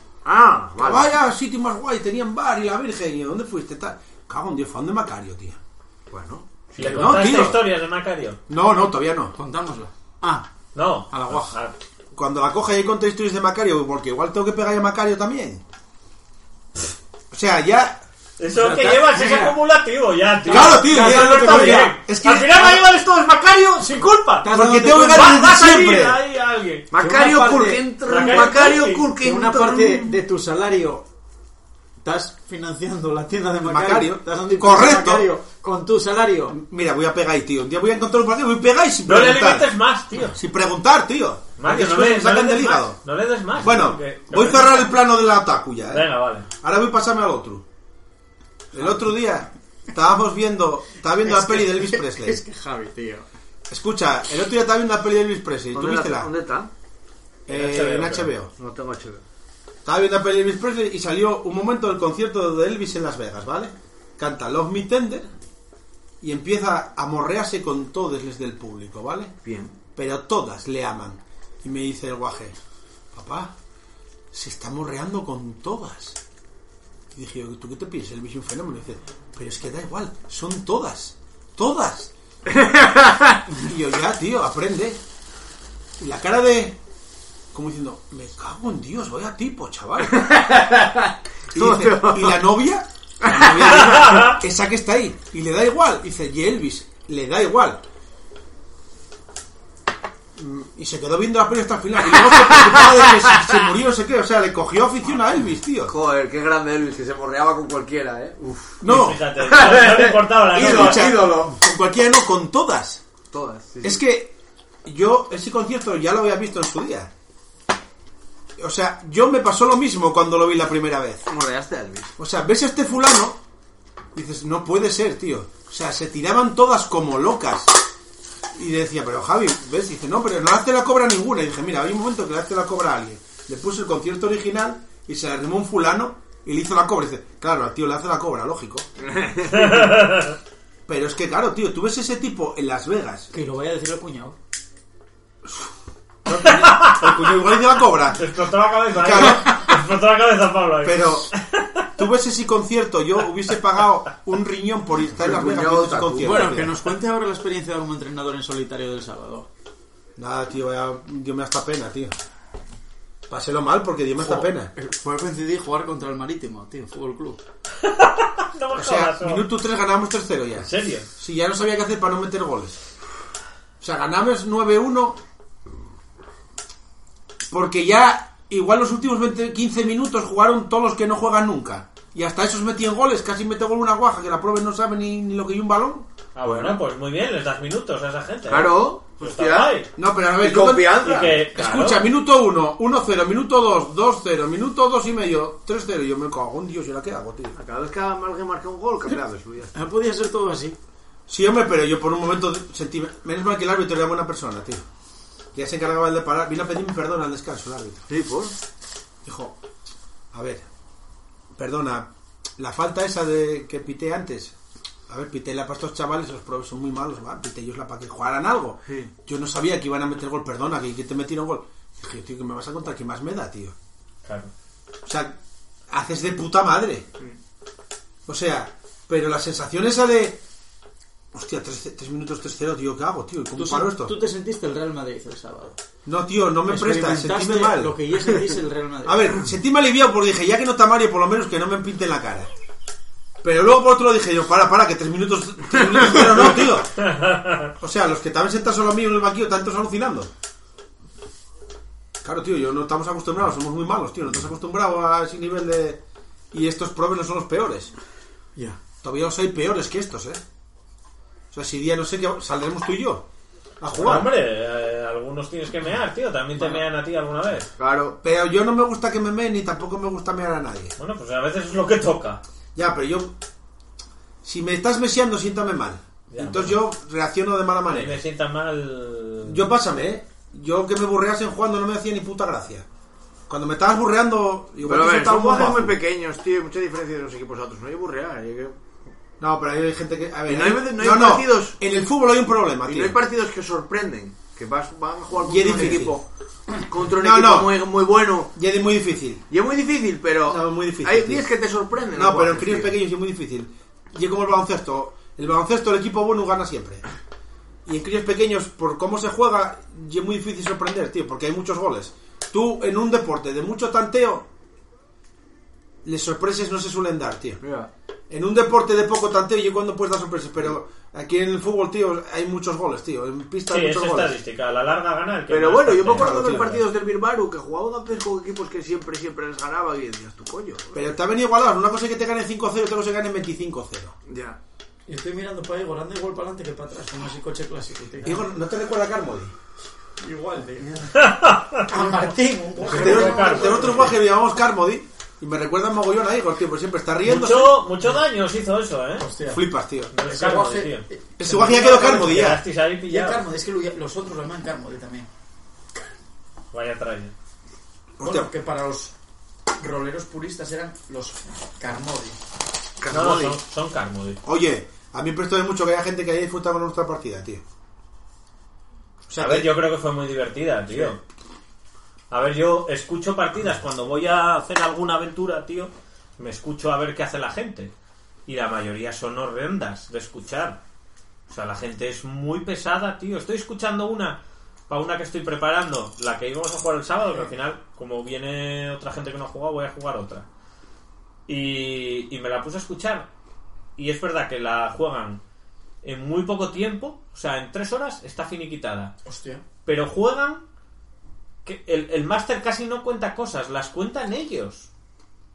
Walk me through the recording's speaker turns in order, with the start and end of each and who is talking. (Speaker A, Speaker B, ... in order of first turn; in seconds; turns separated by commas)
Speaker A: 0.2-1.1, Speaker B: 0.8-5.6, Speaker A: 6.1-6.5, Speaker C: 6.7-8.4, Speaker B: 6.8-7.6, Speaker B: 8.5-9.3, Speaker D: 9.4-10.5, Speaker C: 10.8-11.8, Speaker D: 11.1-11.6, Speaker B: 12.2-15.6, Speaker B: 17.3-18.0, Speaker C: 18.4-26.9, Speaker D: 18.5-19.6, Speaker D: 20.5-22.0, Speaker B: 20.5-22.8, Speaker D: 24.4-25.4, Speaker B: 24.5-26.2, Speaker A: 26.9-30.1, Speaker D: 26.9-28.5, Speaker C: 28.1-29.1, Speaker D: 29.2-31.1, Speaker D: 32.0-36.6, Speaker B: 33.6-35.3, Speaker B: 36.5-39.7, Speaker C: 39.1-40.4, Speaker B: 40.4-43.0, Speaker C: 41.6-44.9, Speaker B: 43.5-46.1, Speaker C: 45.9-46.5, Speaker B: 46.6-47.6, Speaker B: 48.7-52.4, Speaker D: 51.2-53.3, Speaker B: 53.7-56.3, Speaker A: 55.7-56.7, Speaker B: 57.5-58.5, Speaker C: 57.5-58.3, Speaker A: 58.6-59.2, Speaker B: 59.9-65.3, Speaker B: 66.2-69.3, Speaker A: 69.4-69.7, Speaker B: 70.0-72.6, Speaker B: 73.1-73.5, Speaker B: 74.3-76.2, Speaker B: 77.1-82.1, Speaker A: 82.5-83.4, Speaker B: 83.6-85.0, Speaker B: 86.0-86.8, Speaker B: 87.5-90.3, Speaker A: 90.1-92.4, Speaker B: 91.5-97.8, Speaker A: 93.2-94.0, Speaker C: 93.7-94.4, Speaker B: 100.4-105.9, Speaker A: 102.1-103.4, Speaker A: 105.9-108.8, Speaker B: 108.8-109.2, Speaker C: 108.9-111.1, Speaker A: 109.4-111.6, Speaker B: 110.5-113.0, Speaker A: 113.3-114.0, Speaker B: 113.8-114.3, Speaker B: 114.8-117.1, Speaker B: 118.6-121.2, Speaker A: 121.3-122.1, Speaker B: 122.2-123.4, Speaker B: 124.2-127.7, Speaker B: 128.6-138.9, Speaker A: 139.0-139.9, Speaker C: 139.5-140.4, Speaker B: 140.9-143.3, Speaker D: 143.3-144.4, Speaker B: 146.3-148.3, Speaker C: 146.3-147.3, Speaker C: 148.1-151.9, Speaker B: 148.9-149.6, Speaker B: 150.8-151.3, Speaker B: 152.0-156.8, Speaker A: 155.2-156.5, Speaker D: 156.2-159.5, Speaker B: 160.2-162.1, Speaker B: 163.3-164.7, Speaker D: 164.2-167.4, Speaker C: 167.8-169.5, Speaker B: 168.8-172.8, Speaker C: 170.6-171.1, Speaker B: 173.8-175.2, Speaker B: 177.5-186.1, Speaker C: 186.3-189.9, Speaker A: 186.5-186.8, Speaker A: 188.5-189.8, Speaker B: 190.0-197.6, Speaker A: 190.4-191.4, Speaker C: 191.0-192.1, Speaker A: 197.6-199.7, Speaker D: 199.7-200.8, Speaker B: 201.3-204.8, Speaker B: 205.5-208.0, Speaker A: 208.1-208.5, Speaker B: 209.2-209.5, Speaker B: 210.3-210.7, Speaker B: 211.6-214.6, Speaker B: 215.1-223.8, Speaker C: 224.2-224.5, Speaker B: 225.1-225.4, Speaker B: 225.9-227.1, Speaker B: 228.3-230.4, Speaker B: 231.3-234.2, Speaker D: 233.6-235.8, Speaker B: 236.1-238.0, Speaker D: 236.7-239.3, Speaker B: 239.1-242.5, Speaker B: 243.4-247.0, Speaker C: 247.0-247.7, Speaker B: 247.8-250.3, Speaker B: 252.2-256.0, Speaker B: 256.5-257.9, Speaker B: 259.0-260.4, Speaker B: 261.5-263.3, Speaker B: 263.8-264.3, Speaker C: 263.9-267.7, Speaker A: 267.8-268.2, Speaker B: 268.2-270.9, Speaker C: 271.0-272.4, Speaker B: 272.8-273.3, Speaker B: 274.4-278.2, Speaker C: 276.3-276.8, Speaker C: 277.9-279.7, Speaker B: 279.4-282.9, Speaker B: 283.5-286.0, Speaker A: 284.8-288.8, Speaker B: 289.4-293.2, Speaker A: 290.5-291.8, Speaker A: 292.9-296.2, Speaker B: 295.4-296.2, Speaker A: 296.8-298.5, Speaker B: 297.2-297.8, Speaker B: 298.5-299.4, Speaker A: 299.5-303.0, Speaker B: 300.5-301.5, Speaker B: 302.1-307.0, Speaker B: 307.9-314.5, Speaker B: 316.1-317.6, Speaker A: 317.6-317.9, Speaker B: 318.3-324.4, Speaker C: 323.7-326.4, Speaker A: 325.5-331.1, Speaker B: 326.1-326.8, Speaker B: 330.9-334.1, Speaker A: 334.3-334.6, Speaker D: 335.1-338.4, Speaker B: 338.2-339.5, Speaker D: 340.2-341.2, Speaker C: 341.1-342.2, Speaker D: 341.9-344.1, Speaker C: 342.8-344.1, Speaker B: 342.9-347.8, Speaker C: 347.2-349.3, Speaker D: 349.2-349.6, Speaker B: 349.5-350.1, Speaker C: 350.1-353.4, Speaker D: 350.2-352.5, Speaker B: 351.4-352.6, Speaker D: 353.1-355.3, Speaker C: 356.7-357.3, Speaker B: 358.2-358.5, Speaker D: 358.2-359.1, Speaker D: 359.8-362.4, Speaker A: 363.0-363.6, Speaker C: 363.1-364.4, Speaker B: 364.4-367.6, Speaker B: 369.3-369.7, Speaker C: 369.4-371.2, Speaker C: 372.3-377.9, Speaker C: 378.5-380.8, Speaker C: 381.5-390.5, Speaker C: 391.5-393.3, Speaker C: 394.0-395.4, Speaker C: 396.0-399.1, Speaker D: 399.2-399.6, Speaker C: 399.9-400.6, Speaker C: 401.6-404.9